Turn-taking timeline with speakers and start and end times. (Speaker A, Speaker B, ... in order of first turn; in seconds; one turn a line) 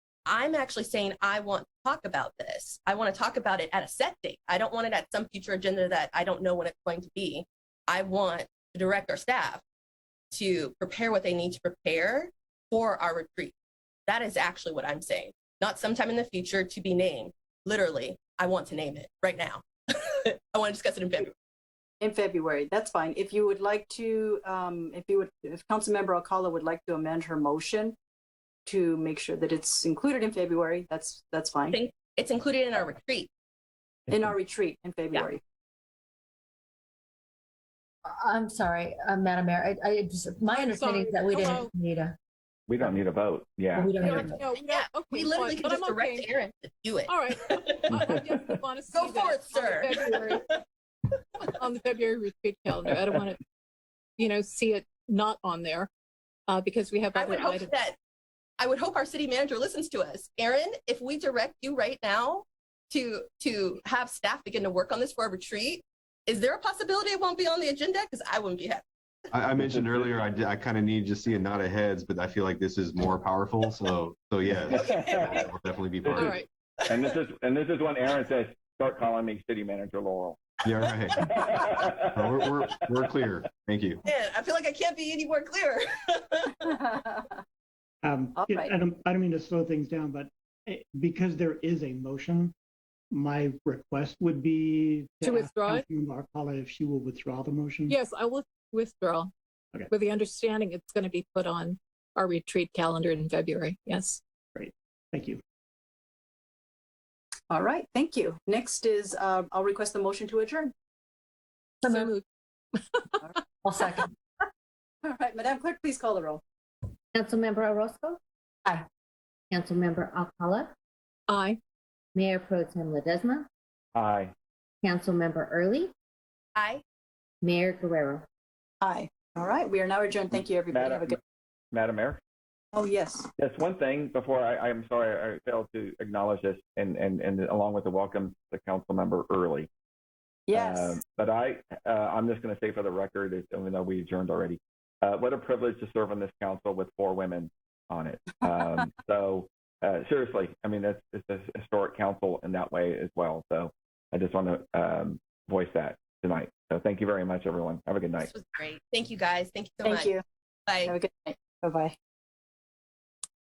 Speaker A: 0.3-9.6
Speaker A: 10.3-13.5
Speaker A: 14.1-21.3
Speaker B: 22.0-27.9
Speaker B: 28.7-31.8
Speaker A: 31.7-33.3
Speaker B: 34.1-35.4
Speaker C: 40.4-42.0
Speaker D: 40.5-41.7
Speaker E: 42.7-44.1
Speaker C: 43.9-44.4
Speaker D: 44.0-46.3
Speaker A: 44.6-48.2
Speaker D: 47.1-50.5
Speaker E: 47.9-48.6
Speaker A: 48.9-50.6
Speaker D: 51.4-53.4
Speaker D: 54.2-55.9
Speaker D: 56.5-57.7
Speaker A: 57.1-58.0
Speaker A: 58.6-68.8
Speaker F: 69.3-76.4
Speaker E: 69.5-70.2
Speaker E: 74.6-75.3
Speaker A: 74.8-75.4
Speaker D: 76.1-76.5
Speaker E: 76.9-80.6
Speaker F: 80.6-81.2
Speaker E: 81.2-83.0
Speaker F: 82.2-84.0
Speaker A: 84.0-86.8
Speaker B: 86.7-87.4
Speaker G: 88.0-92.5
Speaker B: 88.4-88.8
Speaker G: 93.1-98.0
Speaker D: 95.2-95.9
Speaker D: 97.9-99.3
Speaker D: 99.9-104.2
Speaker G: 104.5-105.4
Speaker B: 107.5-110.7
Speaker D: 111.8-112.2
Speaker D: 112.8-113.3
Speaker B: 115.0-116.4
Speaker H: 117.1-118.8
Speaker H: 119.5-120.7
Speaker D: 121.3-121.6
Speaker H: 122.2-123.5
Speaker E: 124.0-124.3
Speaker H: 124.8-125.9
Speaker A: 126.6-126.8
Speaker H: 127.4-128.3
Speaker B: 128.8-131.2
Speaker E: 130.7-131.2
Speaker E: 131.7-132.2
Speaker B: 132.7-133.3
Speaker E: 133.4-139.7
Speaker B: 140.5-141.0
Speaker E: 140.5-158.3
Speaker B: 148.4-148.9
Speaker A: 158.2-160.1
Speaker B: 159.8-160.2
Speaker A: 160.7-161.0
Speaker B: 160.8-162.0